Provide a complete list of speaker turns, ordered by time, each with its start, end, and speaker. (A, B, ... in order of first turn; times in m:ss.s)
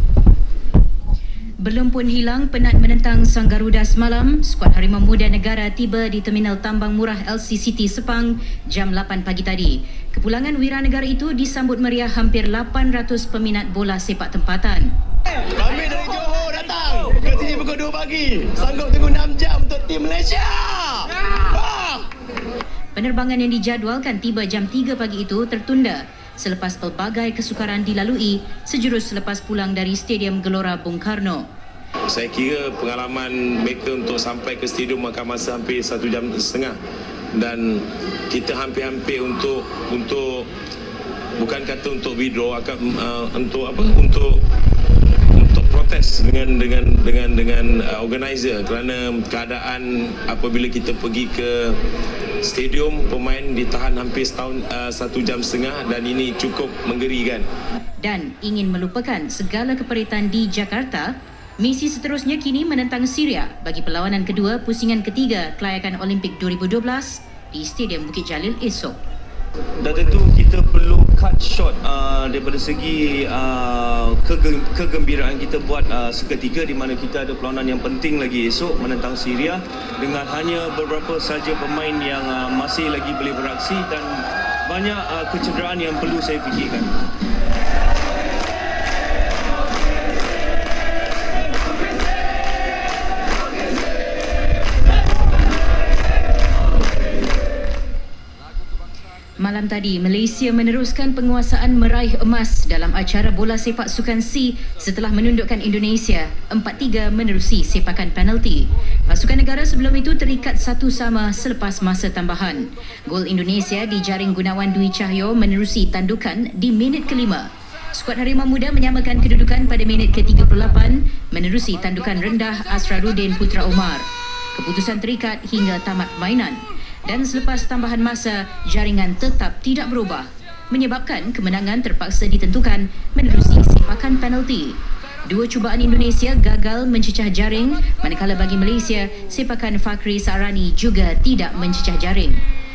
0:01.6-0:14.9 A
0:15.5-0:22.1 B
0:23.0-0:31.5 A
0:32.1-0:36.8 C
0:37.3-0:40.5 C
0:41.4-0:44.4 C
0:45.3-0:51.8 C
0:52.4-0:57.5 C
0:58.0-1:09.0 A
1:09.8-1:26.9 D
1:39.4-2:22.4 A